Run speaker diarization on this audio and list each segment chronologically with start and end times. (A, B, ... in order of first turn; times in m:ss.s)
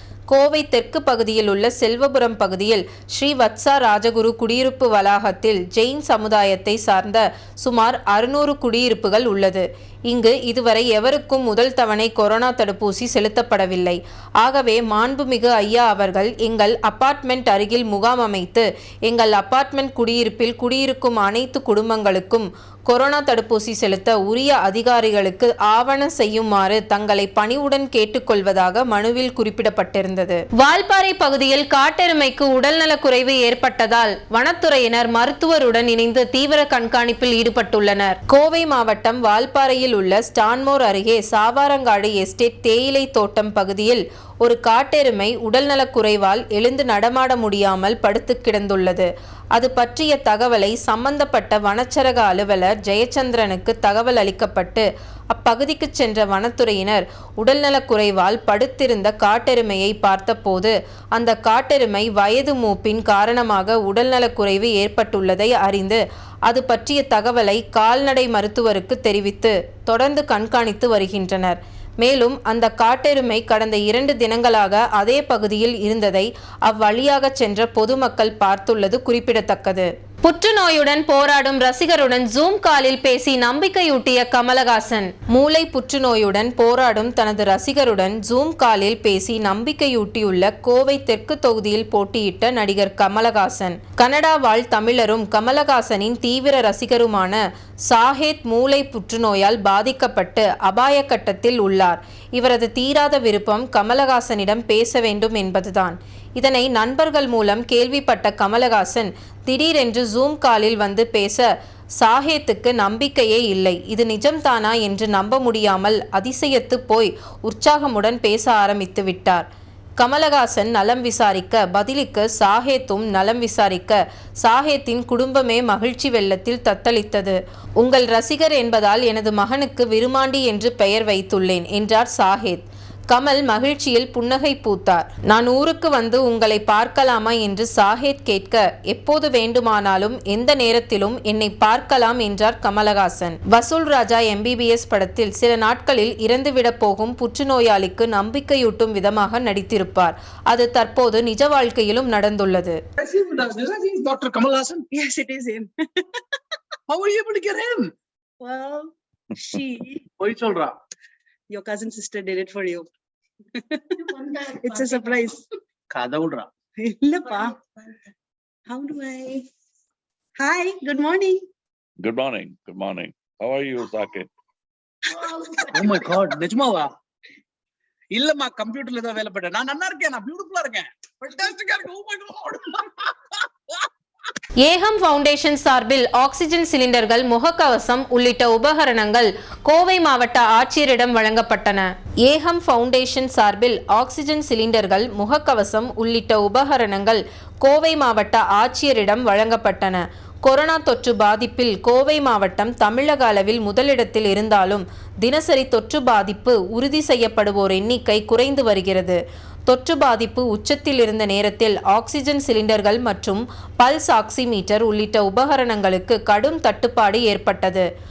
0:00.3-1:51.5 A
1:52.0-1:59.5 A
2:00.0-2:32.8 A
2:33.0-2:34.9 B
2:34.9-2:36.2 C
2:36.9-2:37.9 B
2:38.4-2:40.0 C
2:40.2-2:40.8 B
2:41.5-2:42.9 C
2:43.6-2:45.4 C
2:45.9-2:46.5 B
2:46.8-2:47.6 C
2:48.7-2:49.4 C
2:50.4-2:51.5 C
2:52.0-2:54.3 D
2:55.6-2:56.9 B
2:58.1-3:03.1 B
3:04.6-3:37.9 A